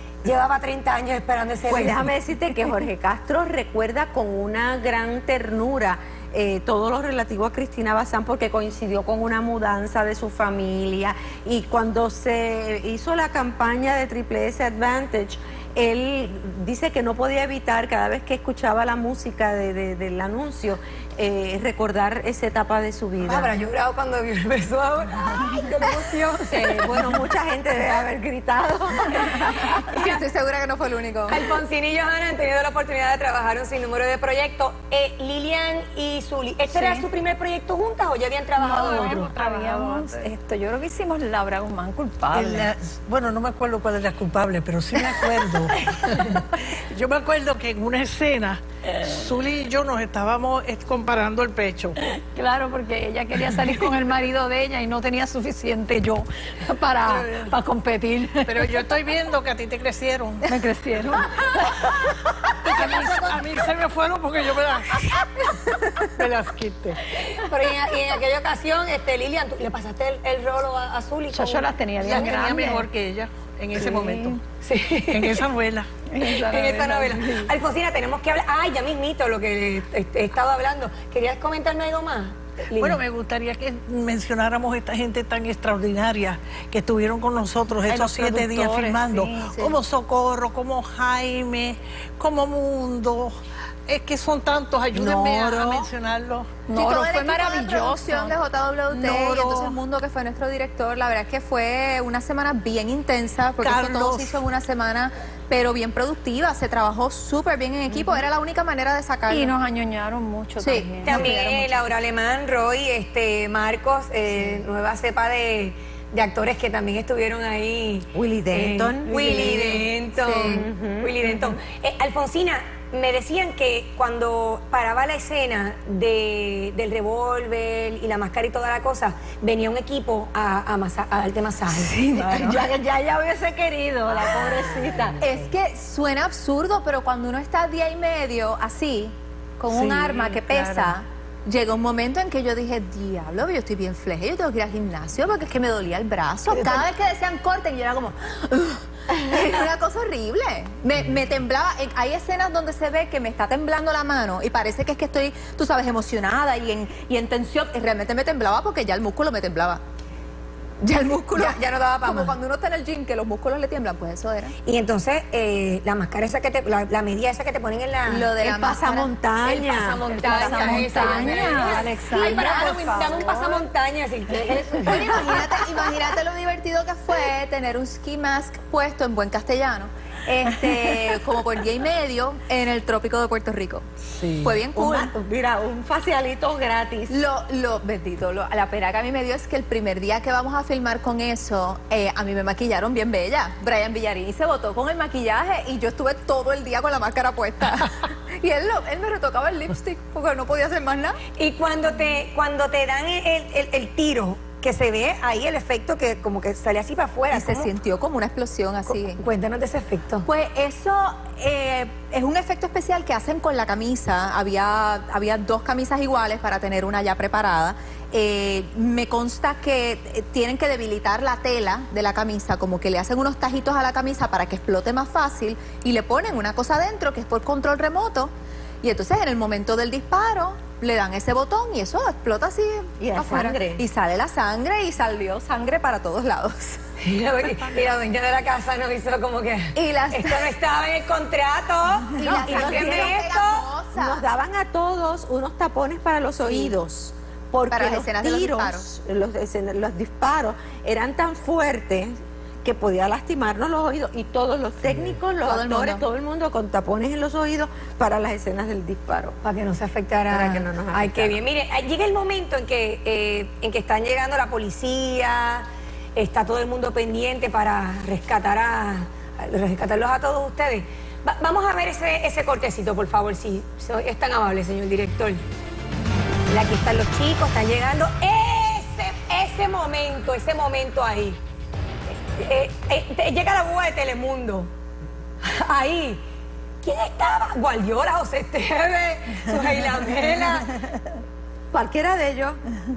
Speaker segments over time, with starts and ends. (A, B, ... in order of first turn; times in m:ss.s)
0:00.2-0:02.1 A
0:01.7-0:23.5 B
0:23.2-0:27.0 A
0:26.5-0:29.7 B
0:29.8-0:31.5 C
0:29.9-0:30.1 A
0:31.3-0:39.3 A
0:36.7-0:37.0 D
0:38.6-0:42.7 D
0:38.6-0:40.2 E
0:42.3-0:52.0 E
0:52.2-0:58.8 D
0:57.0-0:57.5 E
0:58.4-1:00.4 E
1:00.4-1:02.1 D
1:02.6-1:03.4 A
1:02.7-1:07.0 E
1:07.1-1:11.7 A
1:11.3-1:12.9 D
1:12.0-1:14.4 E
1:13.7-1:14.4 D
1:14.6-1:15.4 A
1:15.1-1:15.9 E
1:16.1-1:17.5 D
1:16.2-1:23.0 A
1:22.8-1:36.6 E
1:27.9-1:29.7 D
1:35.0-1:35.4 C
1:35.5-1:35.8 D
1:36.7-1:39.8 D
1:36.7-1:49.5 C
1:43.6-1:44.4 E
1:49.3-1:51.3 D
1:50.6-1:51.8 C
1:51.0-2:12.1 A
1:58.1-2:01.3 B
2:00.3-2:00.6 C
2:12.0-2:12.6 D
2:12.1-2:15.5 B
2:12.2-2:12.5 C
2:15.2-2:39.8 C
2:20.0-2:20.8 E
2:26.5-2:26.8 A
2:40.8-2:44.5 C
2:41.3-2:42.4 A
2:44.6-2:48.3 A
2:48.1-2:53.2 C
2:48.4-2:50.1 B
2:49.5-2:55.6 A
2:50.2-2:53.6 D
2:54.8-3:03.9 C
3:04.1-3:07.2 B
3:04.4-3:05.1 C
3:07.1-3:21.2 C
3:21.4-3:27.7 A
3:27.3-3:29.2 C
3:28.9-3:30.3 A
3:30.2-3:56.8 C
3:53.0-3:53.8 B
3:57.0-4:03.7 A
3:59.8-4:00.5 C
4:02.2-4:04.2 C
4:02.2-4:03.2 B
4:03.9-4:19.3 B
4:07.7-4:08.8 C
4:15.4-4:16.0 C
4:19.4-4:35.4 A
4:20.3-4:21.4 B
4:36.5-4:41.4 A
4:42.1-4:44.7 A
4:45.4-4:46.2 A
4:46.8-4:50.7 A
4:51.7-4:52.6 B